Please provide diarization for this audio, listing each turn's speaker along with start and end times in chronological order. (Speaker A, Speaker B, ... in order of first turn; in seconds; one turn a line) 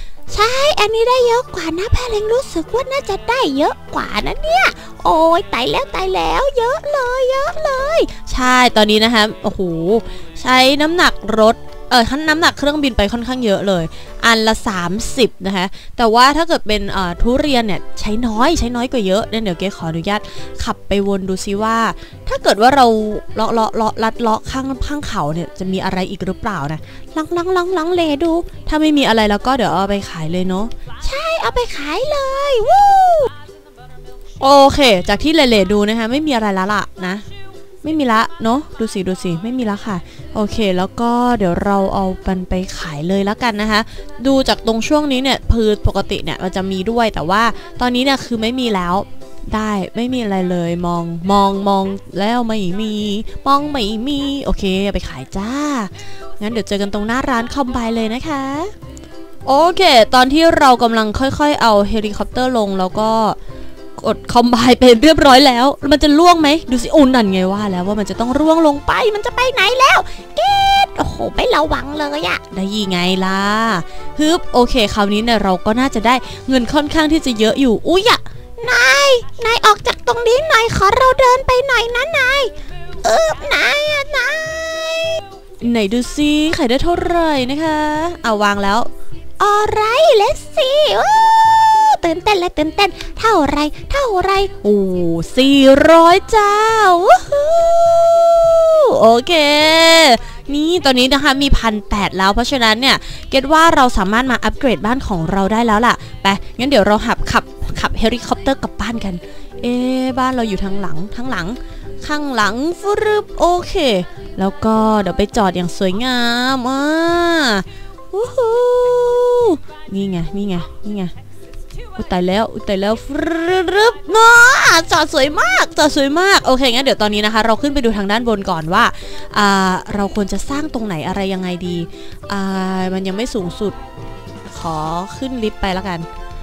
Speaker A: 0.3-8.2
Speaker B: 8.2-30.7
Speaker A: 31.0-33.3
Speaker B: 34.4-37.2
Speaker B: 37.8-58.7
Speaker B: 59.5-63.4
Speaker B: 64.0-69.2
Speaker A: 69.2-72.4
Speaker B: 72.5-78.2
Speaker A: 78.6-85.2
Speaker B: 85.6-88.9
Speaker A: 89.4-94.5
Speaker B: 94.5-121.1
Speaker B: 121.9-133.8
Speaker B: 134.5-136.1